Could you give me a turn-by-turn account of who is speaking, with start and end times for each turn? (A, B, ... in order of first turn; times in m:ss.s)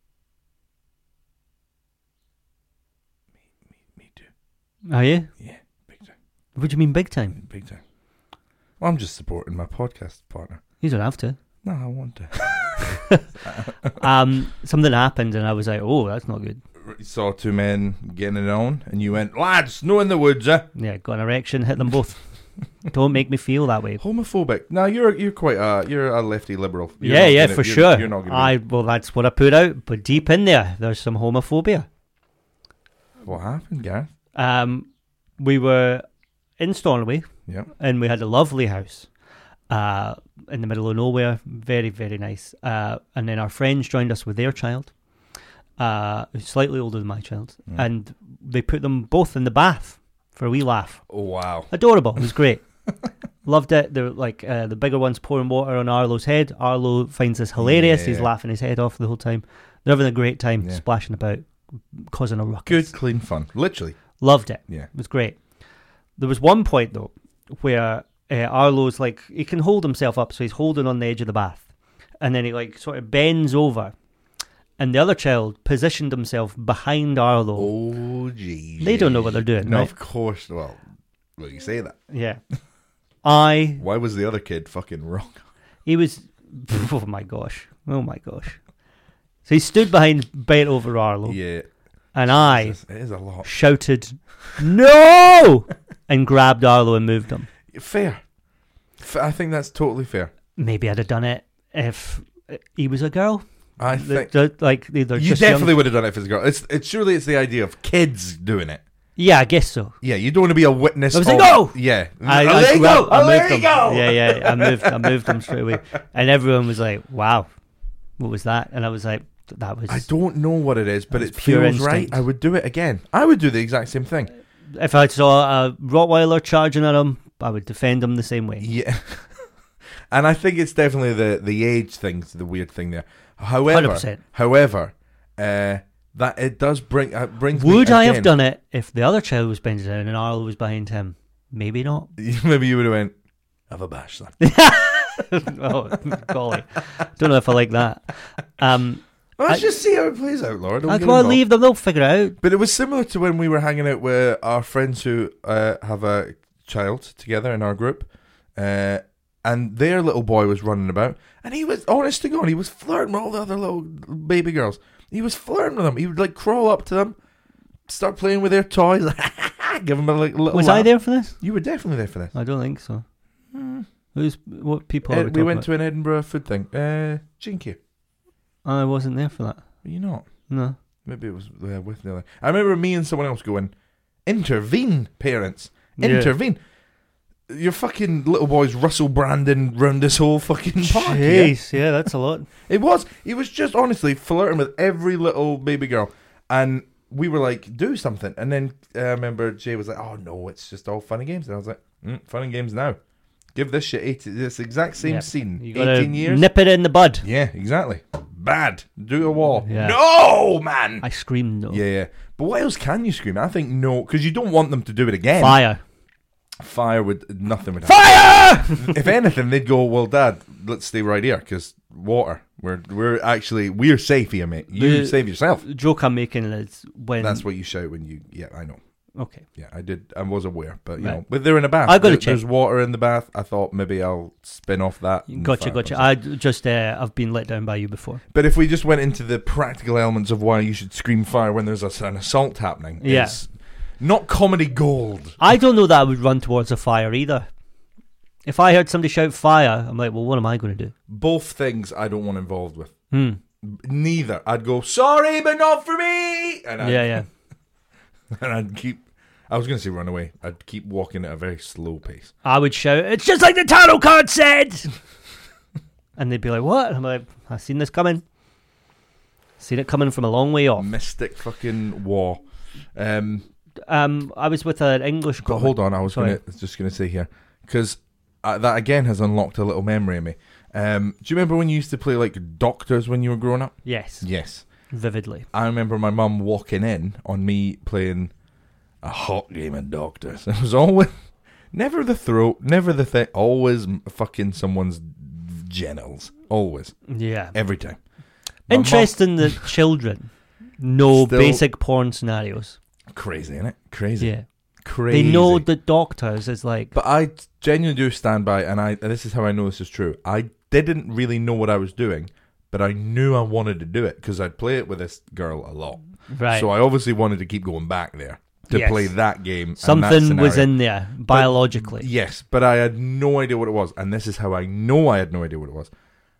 0:03.9-0:04.3 A
0:04.9-0:05.3 B
0:05.4-0:06.1 A
0:06.6-0:07.4 B
0:07.4-0:07.8 A
0:08.8-0:10.6 A
0:10.8-0:11.4 B
0:11.6-0:14.0 A
0:12.8-0:13.2 B
0:14.0-0:16.6 B
0:16.8-0:20.7 A
0:20.7-0:22.2 B
0:22.8-0:24.0 B
0:24.0-0:28.5 A
0:27.0-0:31.9 B
0:33.2-0:34.1 A
0:34.3-0:34.9 B
0:35.4-0:36.0 B
0:36.6-0:39.1 B
0:39.7-0:44.9 B
0:45.8-0:51.0 B
0:51.1-0:51.7 A
0:51.7-0:52.6 B
0:53.4-1:02.9 B
0:57.6-0:58.3 A
1:02.6-1:04.0 A
1:04.2-1:05.4 B
1:06.2-1:11.6 B
1:12.2-1:13.9 B
1:14.8-1:17.7 B
1:17.6-1:20.8 A
1:18.8-1:19.9 B
1:21.4-1:22.0 A
1:22.1-1:22.4 B
1:23.2-1:23.8 B
1:23.8-1:25.4 A
1:25.8-1:28.6 B
1:29.4-1:31.4 B
1:31.2-1:31.7 A
1:32.1-1:32.8 B
1:32.3-1:33.5 A
1:33.4-1:37.5 B
1:37.7-1:38.2 A
1:39.0-1:40.3 A
1:40.6-1:45.7 B
1:43.8-1:44.3 A
1:45.1-1:48.8 A
1:49.2-1:50.0 B
1:50.0-1:55.6 A
1:51.1-1:57.5 B
1:58.2-2:00.1 B
1:59.9-2:04.3 A
2:01.1-2:02.2 B
2:04.7-2:08.7 B
2:08.6-2:09.4 A
2:10.1-2:18.3 A
2:13.7-2:14.2 B
2:17.5-2:22.1 B
2:22.2-2:23.1 A
2:23.7-2:24.4 A
2:24.4-2:29.6 B
2:29.4-2:31.4 A
2:30.8-2:32.4 B
2:32.4-2:47.1 A
2:47.9-2:52.3 A
2:50.5-2:51.4 B
2:52.3-2:53.0 B
2:53.5-2:53.8 A
2:54.1-2:55.7 B
2:55.1-2:57.8 A
2:58.6-2:59.6 B
2:59.8-3:00.2 A
3:00.5-3:00.8 B
3:01.0-3:03.7 A
3:04.2-3:06.6 A
3:06.0-3:06.3 B
3:07.5-3:11.5 A
3:10.8-3:12.5 B
3:12.6-3:23.0 A
3:23.5-3:26.5 A
3:25.0-3:27.2 B
3:27.2-3:31.0 A
3:29.6-3:30.0 B
3:31.0-3:31.8 B
3:31.7-3:35.6 A
3:35.4-3:35.8 B
3:36.6-3:45.6 A
3:37.8-3:39.0 B
3:44.7-3:47.4 B
3:47.2-3:48.8 A
3:49.2-3:49.4 B
3:49.6-3:56.1 A
3:51.8-3:52.4 B
3:55.3-3:58.2 B
3:58.3-4:05.4 A
4:03.0-4:03.4 B
4:05.4-4:07.4 B
4:08.4-4:10.9 B
4:11.1-4:12.9 A
4:13.1-4:13.4 B
4:13.6-4:17.2 A
4:16.8-4:17.2 B
4:18.3-4:22.3 A
4:22.4-4:24.9 B
4:26.2-4:28.2 B
4:29.6-4:30.9 B
4:30.8-4:32.4 A
4:32.9-4:33.4 A
4:33.9-4:36.4 B
4:35.4-4:44.6 A
4:43.8-4:44.3 B
4:44.9-4:45.4 B
4:45.5-4:48.3 A
4:49.0-4:51.1 A
4:51.7-4:57.0 A
4:57.1-4:57.5 B
4:57.5-4:58.0 A
4:58.7-5:02.8 B
4:58.7-4:59.7 A
5:01.1-5:01.6 A
5:03.1-5:05.6 A
5:05.1-5:06.9 B
5:06.9-5:20.7 A
5:16.3-5:16.7 B
5:18.7-5:19.1 B
5:19.8-5:22.1 B
5:21.3-5:25.9 A